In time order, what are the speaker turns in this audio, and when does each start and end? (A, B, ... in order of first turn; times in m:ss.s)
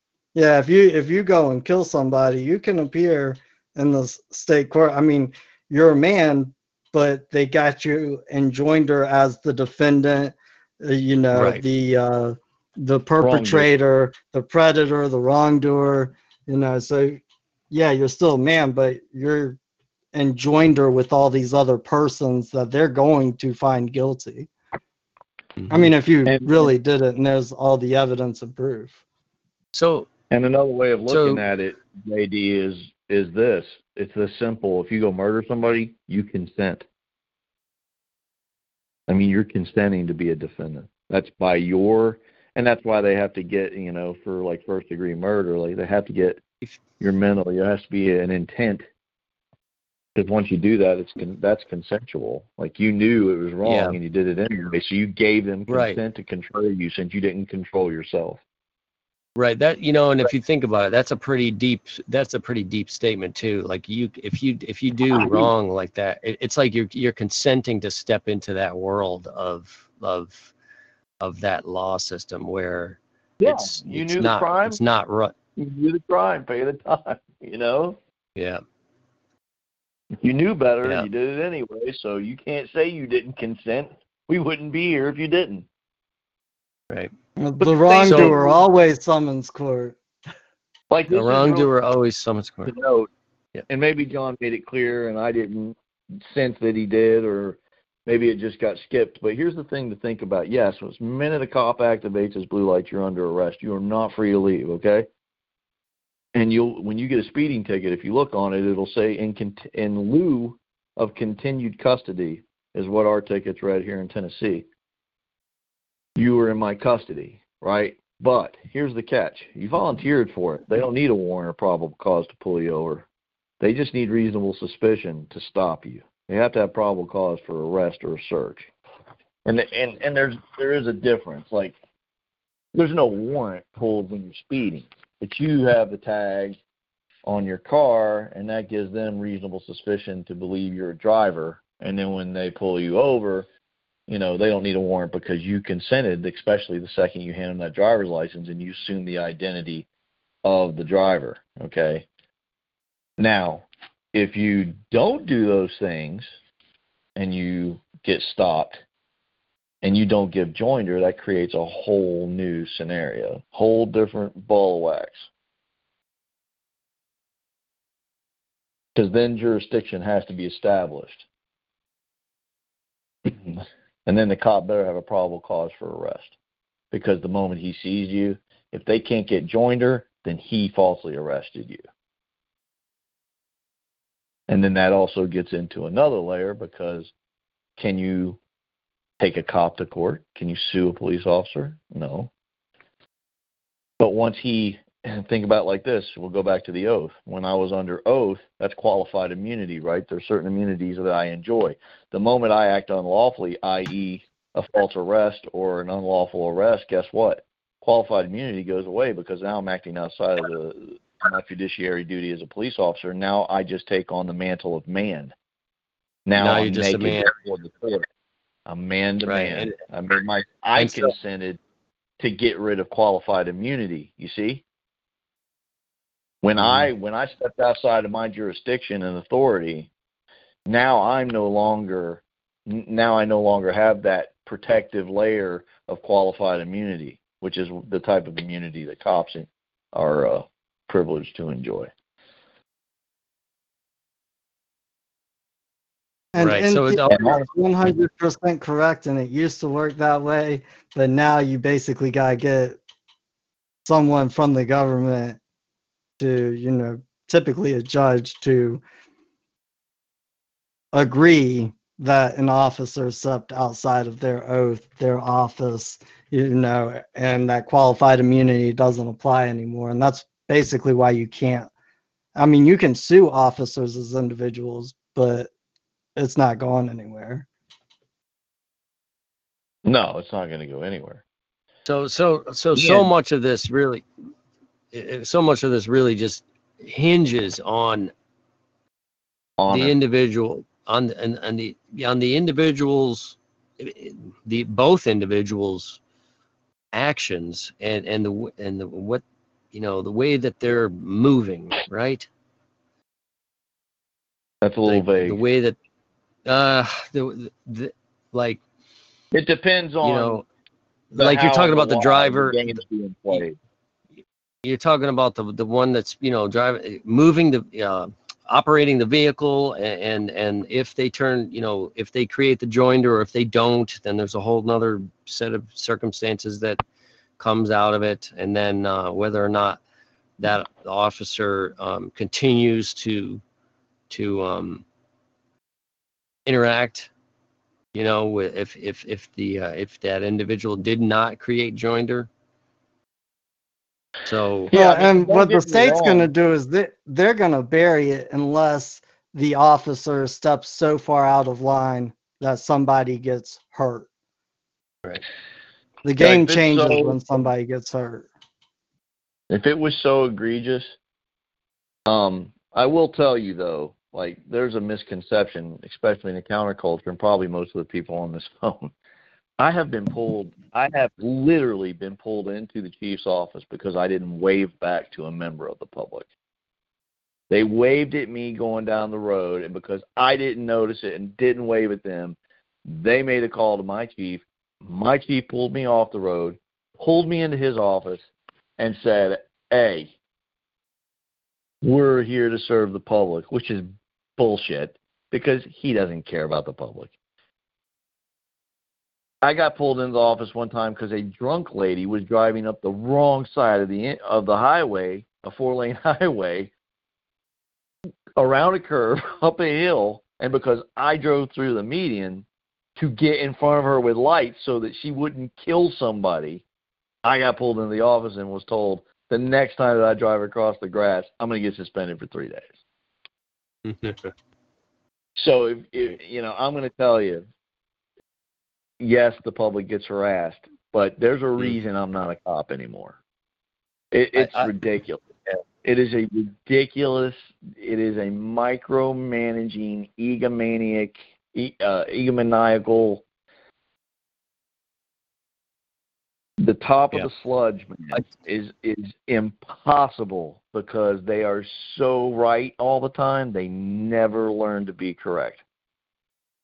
0:00.3-0:17.2 A
0:11.3-0:11.6 B
0:13.2-0:13.7 C
0:17.7-0:19.6 A
0:20.1-0:24.5 A
0:25.6-0:25.9 B
0:25.7-0:29.0 A
0:26.2-0:26.7 C
0:29.7-0:30.1 B
0:30.3-0:36.8 C
0:31.1-0:31.4 B
0:39.1-0:46.4 C
0:47.0-0:48.8 C
0:50.2-0:58.4 C
0:53.6-0:54.0 B
0:55.7-0:56.0 B
0:59.4-1:10.5 B
1:05.2-1:05.5 C
1:11.2-1:15.3 B
1:13.4-1:14.8 C
1:15.6-1:18.0 C
1:18.4-1:18.6 B
1:20.2-1:25.6 C
1:27.4-1:30.0 A
1:27.6-1:28.6 C
1:28.0-1:28.3 B
1:30.9-1:31.7 C
1:31.1-1:32.7 B
1:32.6-1:33.1 C
1:33.7-1:45.1 C
1:46.3-1:54.6 C
1:56.2-2:03.0 C
2:03.6-2:08.7 C
2:09.4-2:11.8 C
2:12.7-2:16.6 C
2:17.2-2:23.5 C
2:24.1-2:29.9 C
2:30.4-2:32.0 C
2:33.2-2:36.3 C
2:37.2-2:38.8 C
2:39.8-2:45.3 C
2:49.0-2:51.2 C
2:53.2-2:56.3 C
2:56.9-3:01.8 C
3:04.5-3:07.1 C
3:07.8-3:08.4 C
3:09.2-3:12.3 C
3:14.0-3:35.3 C
3:36.2-3:38.0 C
3:36.4-3:37.3 B
3:38.6-3:41.6 C
3:39.2-3:39.8 B
3:40.8-3:41.1 B
3:42.2-3:44.6 C
3:46.4-3:49.9 C
3:46.6-3:46.9 B
3:50.6-4:01.9 C
4:06.3-4:12.8 A
4:06.4-4:07.4 B
4:07.1-4:07.4 C
4:13.8-4:15.4 A
4:16.2-4:18.8 A
4:20.9-4:31.7 A
4:32.4-4:35.5 A
4:36.2-4:37.4 A
4:39.8-4:41.2 C
4:41.8-4:44.0 B
4:42.8-4:43.1 C
4:44.9-4:48.1 B
4:49.6-4:50.0 C
4:49.7-4:56.0 B
4:56.9-5:02.3 B
5:04.6-5:05.4 C
5:04.8-5:05.8 B
5:06.4-5:08.6 B
5:09.3-5:10.4 C
5:10.0-5:10.4 B
5:11.1-5:13.6 C
5:11.1-5:12.8 B
5:14.6-5:26.8 B
5:27.4-5:29.8 B
5:30.4-5:33.4 B
5:34.1-5:34.8 B
5:36.4-5:37.1 B
5:37.9-5:42.3 B
5:44.2-5:44.7 B
5:44.7-5:46.3 C
5:44.7-5:54.1 A
5:56.0-5:58.3 A
5:56.2-5:57.3 C
5:59.5-6:00.9 C
6:02.1-6:08.9 C
6:09.6-6:16.3 C
6:17.5-6:28.2 C
6:28.8-6:30.1 C
6:31.8-6:37.1 C
6:39.4-6:46.7 C
6:48.4-6:52.4 C
6:53.0-6:56.6 C
6:57.2-7:02.7 C
7:03.8-7:04.3 B
7:05.4-7:07.4 C
7:09.0-7:13.2 C
7:14.1-7:15.2 C
7:14.3-7:14.7 B
7:15.8-7:23.2 C
7:26.6-7:35.6 C